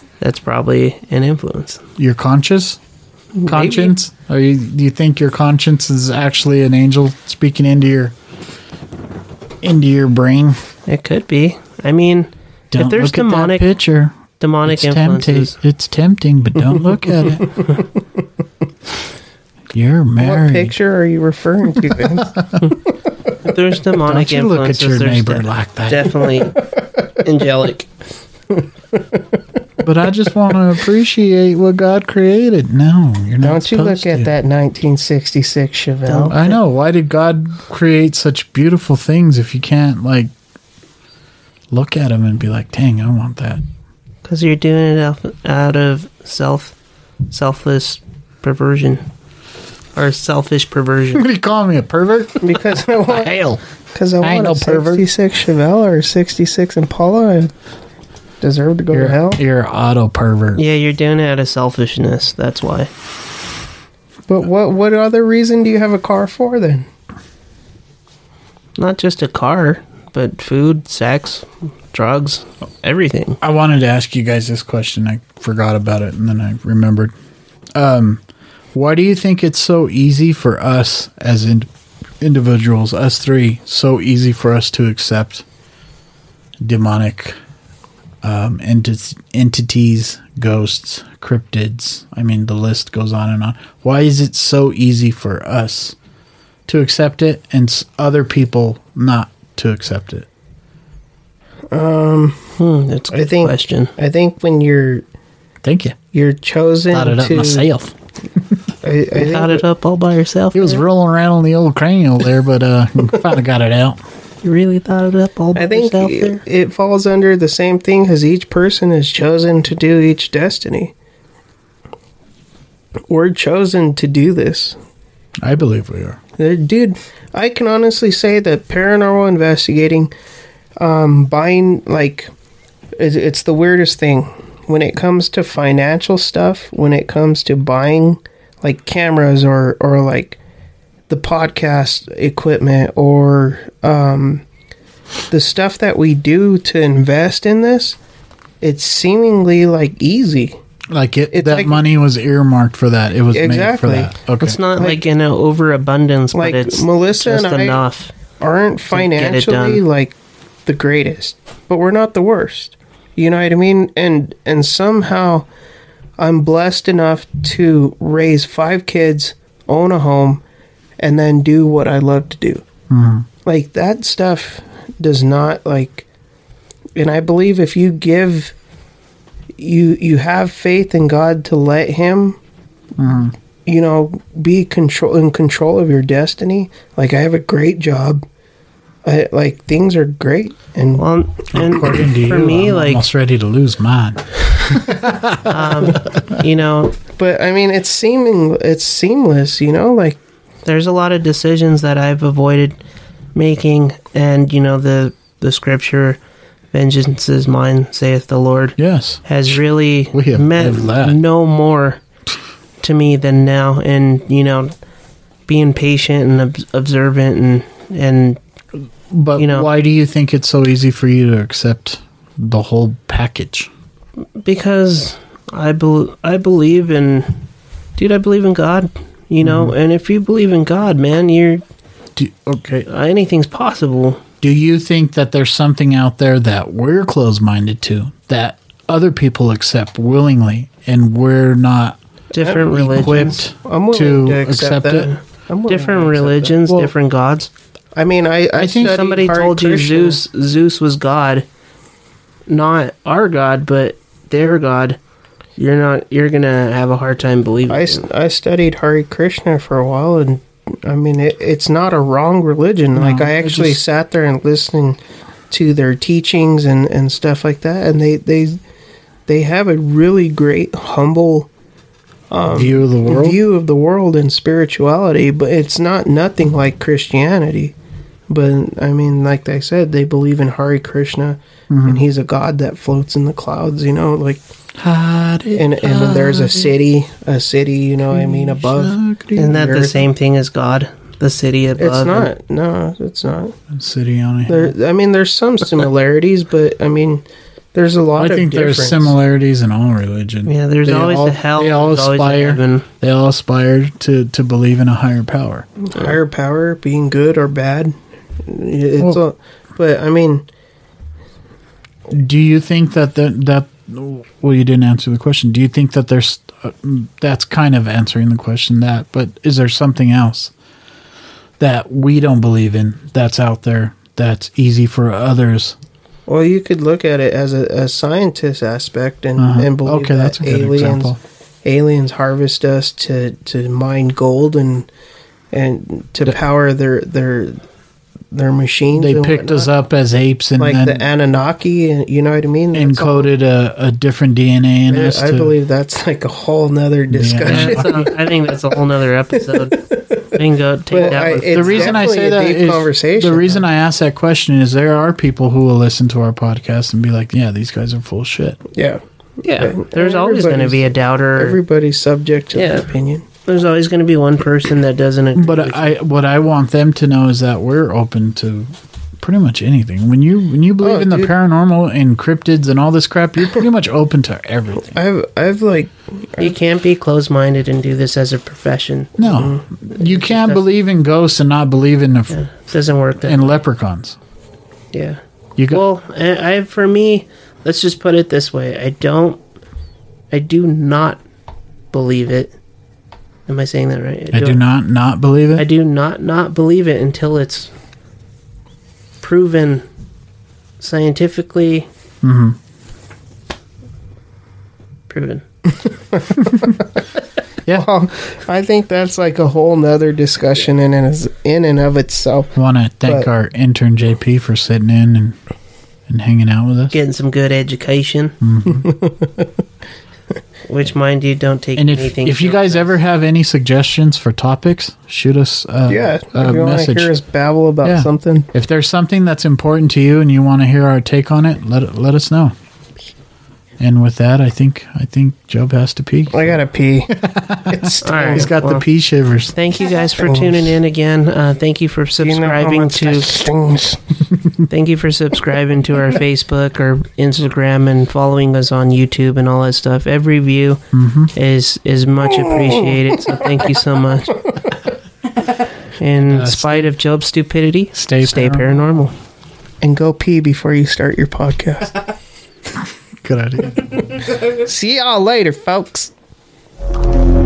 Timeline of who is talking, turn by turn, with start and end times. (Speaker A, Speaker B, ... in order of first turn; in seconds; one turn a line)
Speaker A: 0.2-1.8
Speaker B: 2.0-2.8
Speaker A: 3.3-3.9
Speaker B: 3.4-8.1
Speaker B: 9.6-10.6
Speaker A: 10.9-13.7
Speaker B: 12.7-17.6
Speaker A: 14.4-15.6
Speaker B: 19.7-20.7
Speaker C: 20.2-22.7
Speaker B: 22.2-22.5
Speaker A: 23.4-27.9
Speaker B: 23.9-26.2
Speaker B: 29.8-34.3
Speaker C: 33.4-36.5
Speaker B: 36.1-40.3
Speaker B: 41.7-43.6
Speaker A: 44.2-46.7
Speaker A: 47.3-49.0
Speaker A: 49.9-51.2
Speaker B: 51.1-53.6
Speaker C: 52.4-53.3
Speaker C: 53.9-57.5
Speaker B: 54.2-55.0
Speaker C: 58.4-59.4
Speaker B: 58.9-60.6
Speaker A: 60.5-62.9
Speaker C: 64.3-66.8
Speaker A: 68.8-73.4
Speaker B: 73.4-77.1
Speaker B: 77.7-78.2
Speaker B: 78.7-81.7
Speaker B: 82.2-85.4
Speaker B: 86.6-87.4
Speaker B: 88.2-96.0
Speaker B: 96.7-100.3
Speaker C: 101.7-102.5
Speaker A: 102.6-103.9
Speaker C: 103.1-105.0
Speaker B: 105.6-106.0
Speaker C: 106.1-107.7
Speaker B: 106.9-107.9
Speaker C: 108.8-109.6
Speaker A: 109.2-110.8
Speaker B: 110.5-114.0
Speaker A: 114.4-116.4
Speaker C: 115.5-120.9
Speaker C: 123.1-124.8
Speaker B: 125.4-126.2
Speaker C: 126.4-130.1
Speaker C: 130.8-132.3
Speaker C: 133.0-140.4
Speaker C: 141.1-144.4
Speaker C: 145.3-148.0
Speaker C: 148.6-150.6
Speaker B: 150.9-154.6
Speaker C: 151.3-151.8
Speaker C: 153.3-154.1
Speaker A: 154.4-158.1
Speaker C: 156.3-157.8
Speaker C: 158.4-160.1
Speaker A: 158.9-159.8
Speaker C: 160.7-165.5
Speaker C: 166.2-170.4
Speaker C: 171.0-172.6
Speaker B: 172.9-173.2
Speaker C: 173.4-176.1
Speaker C: 176.9-178.5
Speaker C: 179.6-182.4
Speaker B: 183.0-183.3
Speaker C: 183.7-188.2
Speaker C: 189.0-191.0
Speaker A: 191.0-193.0
Speaker B: 191.5-196.0
Speaker A: 195.5-196.9
Speaker C: 197.2-200.2
Speaker A: 200.6-202.8
Speaker A: 203.3-206.2
Speaker A: 206.7-212.0
Speaker B: 208.8-209.6
Speaker B: 210.1-211.2
Speaker A: 212.8-214.7
Speaker A: 215.5-218.4
Speaker B: 219.1-223.7
Speaker A: 219.3-219.7
Speaker A: 224.4-227.4
Speaker A: 228.0-231.6
Speaker B: 229.4-229.7
Speaker B: 232.2-232.9
Speaker A: 232.9-234.2
Speaker B: 234.4-242.0
Speaker A: 242.3-243.4
Speaker C: 242.4-242.7
Speaker B: 242.6-245.1
Speaker C: 243.5-246.6
Speaker A: 245.7-247.5
Speaker C: 247.9-250.2
Speaker B: 248.6-249.0
Speaker A: 248.8-251.4
Speaker A: 252.5-255.0
Speaker A: 255.6-258.0
Speaker C: 257.7-265.0
Speaker B: 262.9-263.8
Speaker C: 265.5-268.6
Speaker C: 269.3-271.5
Speaker C: 272.3-277.7
Speaker B: 272.5-273.4
Speaker C: 278.3-284.4
Speaker B: 281.7-282.0
Speaker B: 284.8-286.7
Speaker C: 285.5-289.9
Speaker B: 288.1-289.9
Speaker A: 289.4-292.3
Speaker C: 291.8-293.6
Speaker B: 293.7-294.7
Speaker C: 294.5-299.1
Speaker B: 298.2-305.7
Speaker A: 300.4-302.9
Speaker C: 305.8-307.9
Speaker C: 308.4-310.4
Speaker B: 312.1-320.5
Speaker B: 321.6-325.8
Speaker C: 326.3-334.9
Speaker B: 329.4-331.2
Speaker C: 335.5-337.6
Speaker C: 338.3-339.7
Speaker B: 339.0-341.1
Speaker C: 340.6-343.3
Speaker B: 342.7-345.5
Speaker C: 344.9-348.5
Speaker B: 347.1-348.1
Speaker A: 347.4-352.0
Speaker C: 349.6-350.4
Speaker C: 350.9-353.6
Speaker B: 351.5-358.6
Speaker C: 358.7-359.0
Speaker A: 359.4-361.6
Speaker C: 359.6-363.2
Speaker A: 362.5-362.9
Speaker A: 363.4-365.8
Speaker B: 365.4-375.0
Speaker C: 370.8-371.3
Speaker C: 374.8-376.5
Speaker A: 376.4-379.2
Speaker B: 379.2-382.4
Speaker C: 379.3-379.6
Speaker A: 379.9-380.6
Speaker A: 382.3-383.6
Speaker B: 383.2-384.2
Speaker A: 384.9-389.4
Speaker A: 390.3-391.2
Speaker A: 391.9-392.6
Speaker A: 393.5-394.6
Speaker B: 394.3-395.6
Speaker A: 395.6-397.7
Speaker A: 399.2-399.8
Speaker A: 400.8-401.9
Speaker B: 402.2-402.6
Speaker A: 405.1-405.4
Speaker C: 405.9-407.0
Speaker C: 407.7-412.5
Speaker B: 412.6-415.4
Speaker B: 416.1-416.9
Speaker A: 416.9-418.3
Speaker B: 418.4-418.9
Speaker C: 418.6-419.5
Speaker A: 420.6-422.9
Speaker B: 421.8-427.1
Speaker C: 425.9-428.5
Speaker B: 427.8-432.5
Speaker B: 433.8-436.5
Speaker C: 436.3-438.5
Speaker B: 437.1-439.5
Speaker A: 438.0-438.8
Speaker A: 439.5-443.3
Speaker C: 440.2-440.7
Speaker C: 442.2-444.0
Speaker A: 444.7-450.8
Speaker B: 450.9-451.3
Speaker A: 451.3-454.4
Speaker C: 452.3-453.7
Speaker A: 456.0-459.1
Speaker B: 456.2-456.9
Speaker B: 457.9-458.7
Speaker C: 459.8-462.0
Speaker B: 463.2-464.3
Speaker C: 464.3-466.1